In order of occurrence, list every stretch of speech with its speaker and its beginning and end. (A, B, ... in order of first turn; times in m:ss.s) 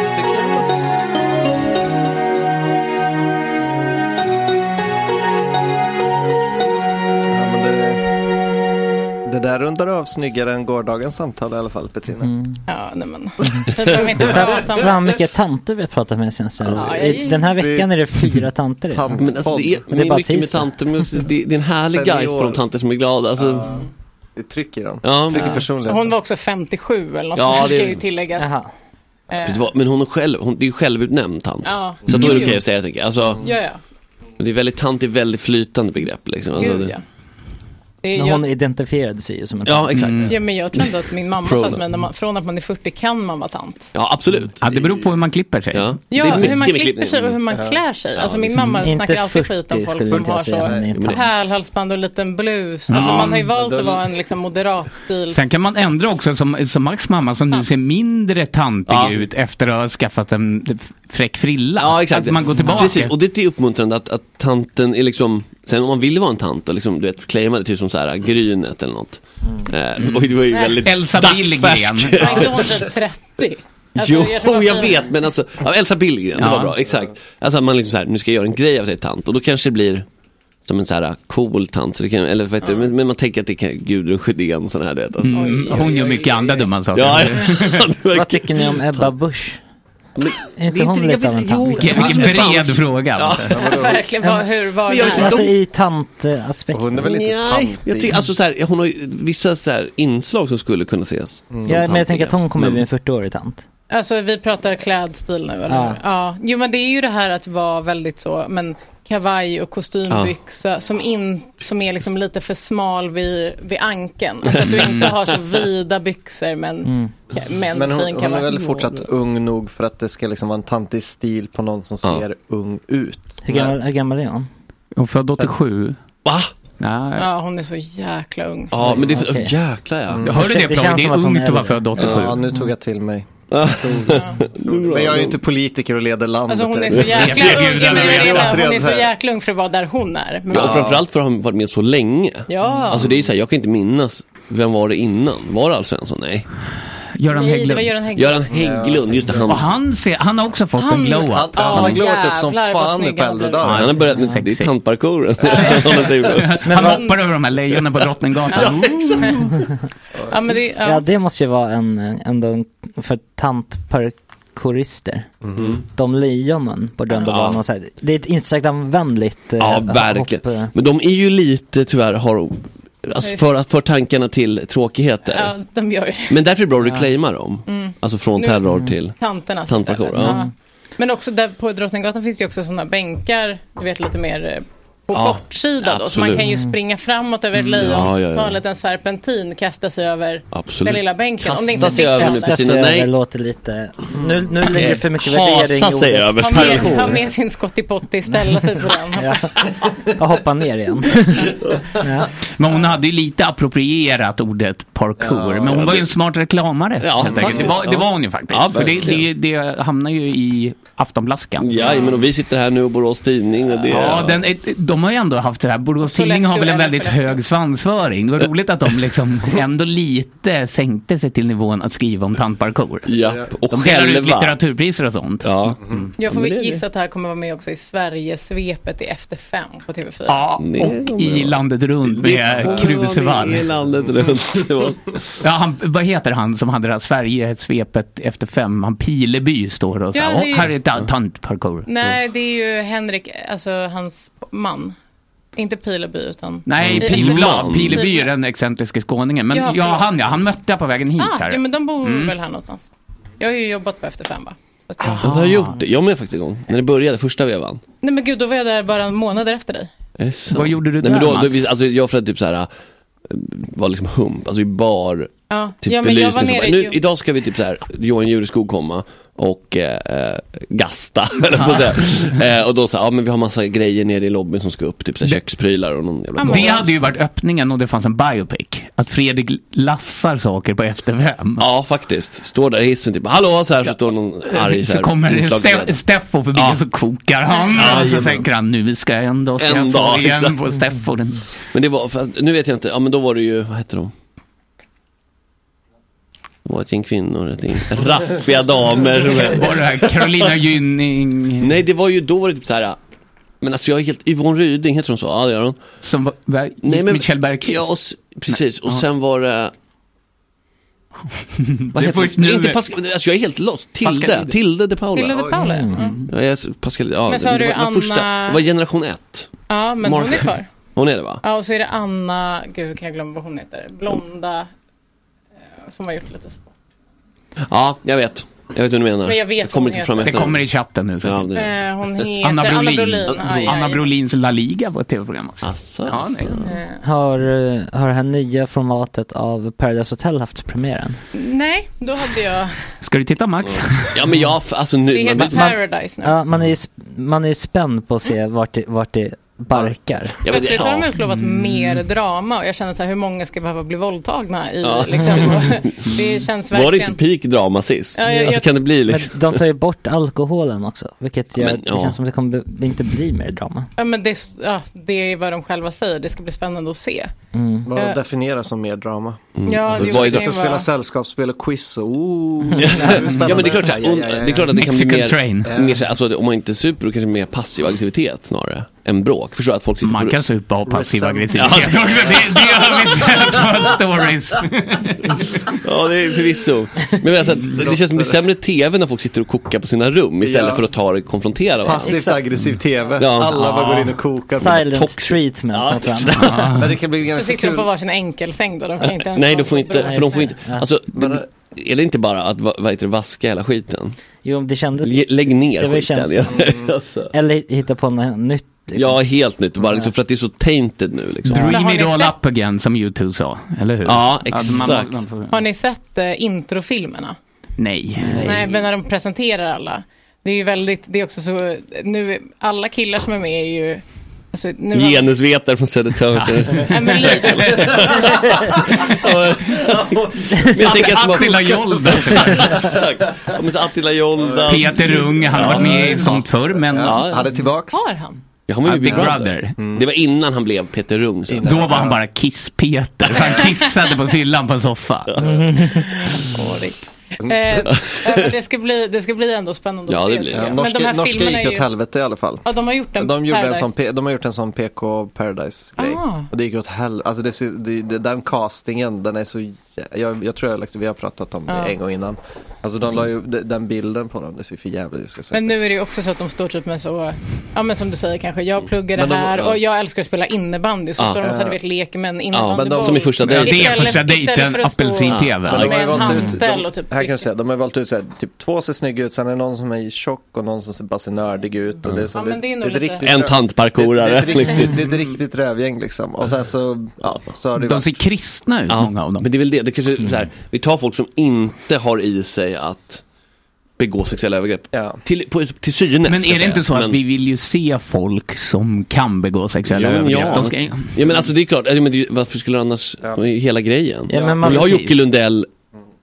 0:00.1-0:00.7 A
0:07.3-0:08.0 A
0:09.2-0:12.3 A
0:12.2-0:12.6 B
0:12.7-0:15.0 C
0:14.2-0:19.3 B
0:16.7-0:17.6 C
0:17.5-0:17.9 A
0:18.9-0:19.8 A
0:19.2-0:23.8 D
0:19.9-0:21.0 B
0:21.9-0:22.6 A
0:23.4-0:23.8 A
0:24.4-0:26.1 A
0:25.0-0:25.7 D
0:25.4-0:28.5 C
0:27.3-0:28.0 D
0:28.4-0:28.7 B
0:29.3-0:29.6 C
0:29.4-0:33.5 D
0:31.6-0:32.7 C
0:32.1-0:32.5 E
0:33.4-0:33.8 C
0:34.4-0:37.0 D
0:36.6-0:37.0 C
0:38.0-0:38.4 C
0:38.1-0:40.1 B
0:39.6-0:41.8 D
0:39.9-0:40.3 E
0:40.3-0:43.9 C
0:43.9-0:45.1 D
0:44.6-0:46.2 E
0:45.7-0:47.4 D
0:46.1-0:55.5 C
0:47.5-0:47.8 A
0:48.2-0:48.8 D
0:48.8-0:51.2 B
0:50.1-0:51.0 A
0:50.9-0:51.2 D
0:52.9-0:53.4 E
0:52.9-0:53.4 D
0:53.2-0:54.0 A
0:55.3-1:03.1 E
0:58.9-0:59.2 D
1:01.8-1:12.9 D
1:10.0-1:10.3 E
1:10.5-1:10.8 C
1:10.8-1:12.5 E
1:12.2-1:15.0 C
1:14.0-1:20.0 D
1:16.4-1:16.8 E
1:20.6-1:26.1 D
1:22.6-1:22.9 C
1:25.2-1:27.8 E
1:25.3-1:26.3 C
1:25.8-1:26.2 A
1:26.9-1:29.1 D
1:28.1-1:29.6 B
1:30.2-1:33.9 D
1:30.6-1:32.4 B
1:31.8-1:33.6 E
1:33.5-1:34.0 A
1:33.6-1:35.4 C
1:34.8-1:35.5 D
1:35.0-1:37.1 B
1:36.7-1:38.3 A
1:37.0-1:42.8 D
1:41.5-1:41.8 A
1:41.7-1:43.6 B
1:43.9-1:58.9 C
1:45.7-1:46.0 B
1:50.1-1:50.3 D
1:54.5-1:55.4 D
1:54.7-1:55.1 E
1:56.8-1:57.1 B
1:57.7-2:03.7 A
2:03.4-2:04.5 B
2:05.0-2:06.0 E
2:06.2-2:06.5 D
2:06.8-2:07.3 E
2:07.2-2:08.7 C
2:08.7-2:10.3 D
2:08.9-2:09.5 B
2:10.1-2:10.3 A
2:10.2-2:12.4 E
2:10.3-2:12.0 B
2:12.0-2:19.1 A
2:13.5-2:15.4 D
2:16.5-2:20.8 C
2:16.9-2:17.7 D
2:17.2-2:18.7 E
2:20.5-2:26.5 D
2:20.5-2:21.0 A
2:22.5-2:23.0 C
2:27.2-2:27.9 E
2:27.3-2:28.4 C
2:28.1-2:29.8 D
2:28.5-2:29.6 A
2:29.5-2:32.0 E
2:30.8-2:33.6 C
2:31.2-2:34.1 A
2:33.6-2:36.7 D
2:33.6-2:34.7 E
2:35.5-2:36.1 C
2:36.3-2:39.4 E
2:36.6-2:37.1 B
2:36.9-2:37.2 C
2:38.5-2:39.4 C
2:38.5-2:39.3 D
2:40.3-2:41.0 C
2:40.8-2:45.3 B
2:45.4-2:45.8 A
2:45.6-2:45.8 D
2:45.9-2:50.7 B
2:47.2-2:47.6 D
2:49.6-2:55.5 D
2:55.3-2:56.4 C
2:56.3-3:00.4 D
2:57.6-3:12.6 C
2:58.7-2:58.9 B
3:00.2-3:00.5 B
3:05.1-3:06.5 D
3:06.4-3:06.7 B
3:07.6-3:08.6 D
3:10.5-3:13.1 D
3:11.7-3:17.2 B
3:14.2-3:14.4 A
3:14.6-3:17.2 D
3:16.4-3:19.4 C
3:18.3-3:18.6 B
3:19.2-3:22.3 B
3:22.6-3:32.1 E
3:25.2-3:25.8 A
3:25.6-3:26.1 D
3:27.0-3:29.3 D
3:27.3-3:27.7 A
3:31.6-3:34.4 D
3:31.8-3:32.2 C
3:33.9-3:43.1 E
3:36.0-3:37.4 C
3:43.0-3:44.6 D
3:43.2-3:43.5 A
3:43.7-3:46.1 E
3:45.4-3:46.8 D
3:46.2-3:50.4 C
3:50.3-3:53.7 E
3:50.6-3:55.3 D
3:55.4-4:01.9 E
4:00.1-4:00.7 C
4:01.8-4:05.0 C
4:05.5-4:08.3 C
4:06.6-4:12.3 E
4:06.8-4:08.0 D
4:09.5-4:10.1 C
4:11.2-4:12.9 C
4:13.4-4:15.3 C
4:15.0-4:15.8 E
4:15.2-4:17.8 D
4:18.0-4:19.9 C
4:20.2-4:22.7 D
4:20.5-4:21.7 E
4:23.3-4:36.9 D
4:25.5-4:27.0 C
4:31.6-4:31.9 E
4:36.4-4:36.9 C
4:36.4-4:41.7 E
4:41.6-4:46.8 D
4:44.4-4:51.4 E
4:47.7-4:48.5 D
4:49.6-4:50.6 D
4:51.7-4:54.1 D
4:56.6-5:00.5 D
4:59.2-5:01.8 E
5:01.6-5:03.0 D
5:03.6-5:05.8 D
5:06.0-5:07.9 E
5:06.8-5:09.7 D
5:08.5-5:09.0 E
5:11.6-5:12.8 E
5:11.9-5:15.6 D
5:14.0-5:14.6 E
5:15.1-5:16.2 C
5:15.3-5:15.6 A
5:15.5-5:16.1 B
5:16.0-5:16.3 E
5:16.3-5:19.5 D
5:17.3-5:18.6 C
5:19.7-5:20.7 C
5:20.0-5:21.4 D
5:21.4-5:24.7 C
5:25.8-5:26.7 C
5:27.6-5:30.7 D
5:29.2-5:30.5 C
5:30.2-5:31.5 E
5:31.2-5:31.8 D
5:31.5-5:34.0 C
5:32.4-5:36.7 E
5:33.3-5:33.8 D
5:35.6-5:36.8 D
5:36.6-5:37.0 C
5:37.0-5:41.2 B
5:41.3-5:42.9 C
5:43.0-5:44.3 E
5:43.6-5:45.8 D
5:45.1-5:46.4 C
5:45.4-5:50.4 B
5:50.4-5:51.1 D
5:50.5-5:57.2 C
5:51.3-5:51.9 E
5:54.8-5:59.6 D
5:58.1-5:58.7 C
5:58.2-6:03.9 B
6:01.6-6:02.2 D
6:04.0-6:07.3 C
6:07.5-6:07.9 B
6:07.8-6:14.7 A
6:09.6-6:10.6 D
6:09.6-6:10.9 C
6:12.8-6:20.4 D
6:14.7-6:15.7 E
6:15.6-6:16.0 A
6:20.0-6:25.7 E
6:20.9-6:23.2 A
6:21.5-6:23.3 D
6:25.8-6:32.3 D
6:27.6-6:28.4 A
6:30.4-6:30.9 A
6:31.8-6:34.8 A
6:32.1-6:32.4 B
6:33.2-6:36.6 D
6:34.6-6:36.9 B
6:36.4-6:36.9 E
6:36.7-6:37.9 A
6:37.3-6:40.5 C
6:39.2-6:44.2 D
6:40.0-6:40.9 B
6:41.1-6:41.4 A
6:44.4-6:46.7 B
6:45.0-6:47.3 D
6:46.5-6:46.9 A
6:47.3-6:49.2 B
6:48.9-6:51.8 D
6:51.5-6:55.5 E
6:51.6-6:52.3 C
6:54.0-6:55.2 D
6:55.5-6:57.4 C
6:57.8-6:58.6 E
6:58.2-6:58.7 B
6:58.4-7:04.0 C
7:04.5-7:05.3 C
7:04.9-7:16.4 D
7:06.4-7:08.0 E
7:06.9-7:08.2 C
7:09.8-7:12.9 A
7:10.8-7:12.8 E
7:14.4-7:18.0 A
7:14.6-7:17.3 E
7:17.0-7:17.6 D
7:17.9-7:18.4 C
7:18.7-7:22.0 D
7:18.8-7:19.8 E
7:19.0-7:20.1 A
7:21.5-7:22.2 A
7:21.6-7:25.3 E
7:23.4-7:23.9 C
7:25.3-7:25.6 D
7:25.4-7:26.0 B
7:25.9-7:31.9 C
7:27.4-7:27.9 A
7:27.9-7:28.4 D
7:30.1-7:30.8 D
7:30.5-7:45.7 A
7:32.6-7:33.9 C
7:36.0-7:36.5 C
7:41.7-7:41.9 C
7:45.5-7:57.5 C
7:49.2-7:49.7 D
7:51.4-7:51.8 A
7:52.5-7:54.1 D
7:52.7-7:53.6 A
7:53.4-7:55.9 E
7:55.3-7:56.6 D
7:55.6-8:08.2 A
8:02.3-8:03.2 C
8:03.2-8:05.1 D
8:07.8-8:09.5 E
8:08.9-8:13.2 D
8:14.0-8:17.2 D
8:14.9-8:15.2 A
8:16.3-8:21.2 E
8:19.9-8:25.7 D
8:24.3-8:25.0 B
8:24.3-8:24.9 A
8:24.6-8:25.1 E